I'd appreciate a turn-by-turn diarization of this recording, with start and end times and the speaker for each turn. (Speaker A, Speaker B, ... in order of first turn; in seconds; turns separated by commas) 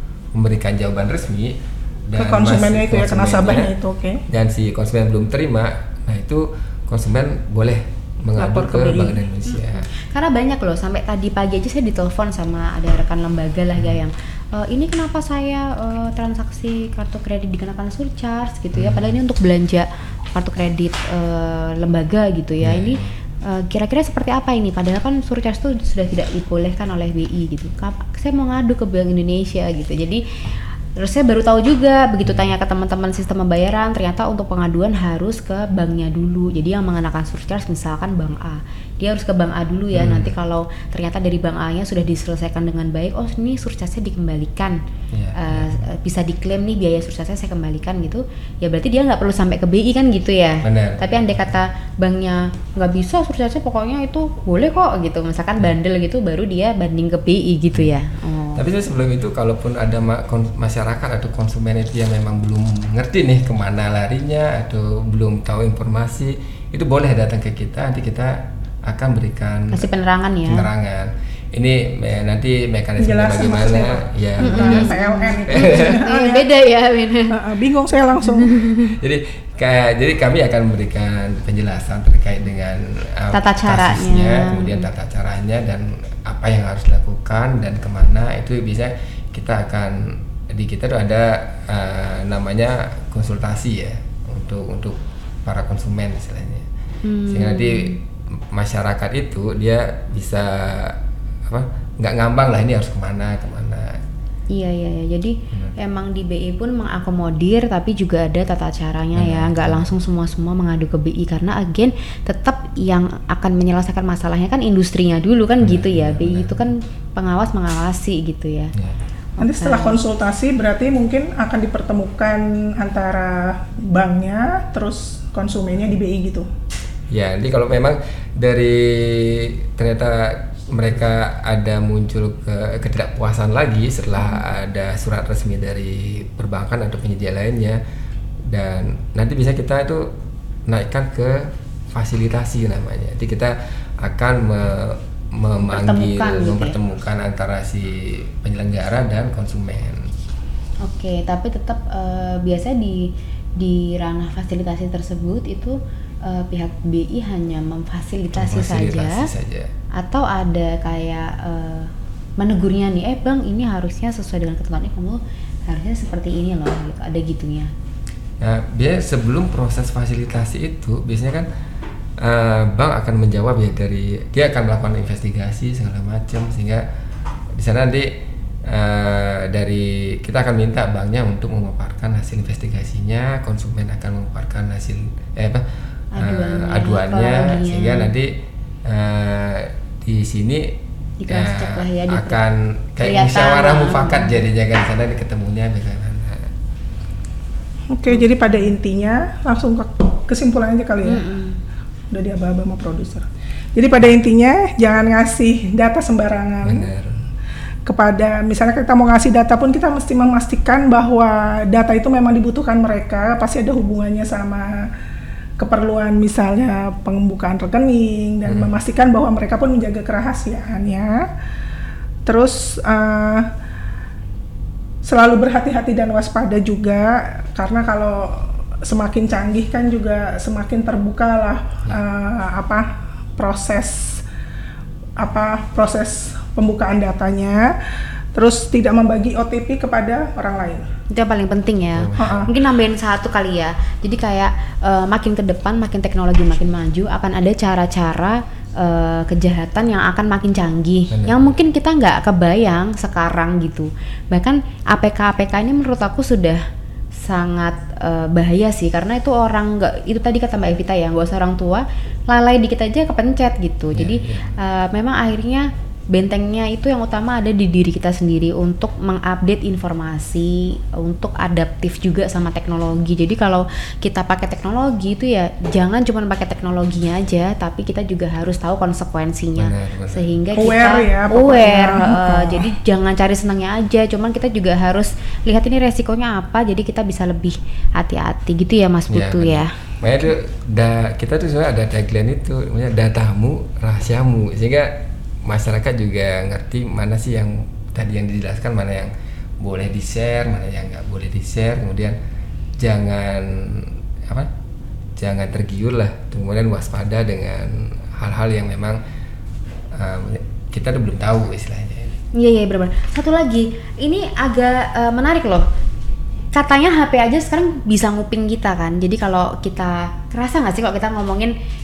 Speaker A: 0.3-3.7, Speaker B: 2.2-4.2, Speaker A: 4.3-9.9, Speaker B: 8.4-9.2, Speaker C: 9.5-30.2, Speaker A: 18.7-19.1, Speaker A: 22.6-23.1, Speaker C: 31.0-44.8, Speaker A: 32.2-32.5, Speaker A: 39.9-40.3, Speaker A: 45.1-45.8, Speaker C: 45.4-58.6, Speaker A: 50.6-51.4, Speaker A: 57.7-58.0, Speaker A: 58.6-69.9, Speaker C: 69.7-70.7, Speaker A: 70.5-74.9, Speaker B: 73.0-76.5, Speaker C: 74.4-77.4, Speaker A: 75.5-75.9, Speaker B: 77.3-78.5, Speaker C: 78.2-78.9, Speaker A: 78.9-96.7, Speaker C: 83.3-84.9, Speaker C: 97.0-98.0, Speaker A: 97.3-98.0, Speaker A: 98.5-104.0, Speaker C: 104.5-118.7, Speaker A: 109.2-109.9, Speaker A: 115.6-116.7, Speaker C: 119.4-120.0, Speaker B: 119.4-126.5, Speaker A: 127.1-137.8, Speaker A: 138.5-140.1, Speaker A: 140.7-150.1, Speaker C: 145.6-146.8, Speaker C: 150.8-159.3, Speaker A: 158.3-159.7, Speaker C: 160.0-167.7, Speaker A: 168.4-171.5, Speaker A: 172.2-176.8, Speaker A: 177.6-178.1, Speaker A: 178.7-185.7, Speaker C: 186.2-188.1, Speaker A: 186.2-188.3, Speaker A: 188.8-190.8, Speaker C: 191.2-192.4, Speaker A: 191.3-196.5, Speaker C: 193.0-194.4, Speaker B: 197.9-201.2, Speaker C: 198.1-198.6, Speaker C: 201.0-201.6, Speaker B: 202.1-206.9, Speaker A: 206.6-207.2, Speaker B: 207.8-214.9, Speaker B: 215.6-221.3, Speaker A: 218.5-218.7, Speaker B: 222.3-223.5, Speaker B: 225.0-234.2, Speaker B: 235.2-237.7, Speaker B: 238.3-240.9, Speaker C: 241.1-256.6, Speaker A: 241.9-242.5, Speaker B: 242.2-242.5, Speaker A: 251.1-251.6, Speaker C: 257.1-289.7, Speaker A: 263.9-264.6, Speaker A: 279.6-280.3, Speaker B: 280.6-282.7, Speaker A: 289.1-302.2, Speaker A: 302.8-304.5, Speaker A: 305.2-309.0, Speaker A: 309.9-312.2, Speaker C: 312.3-315.7, Speaker C: 316.5-321.5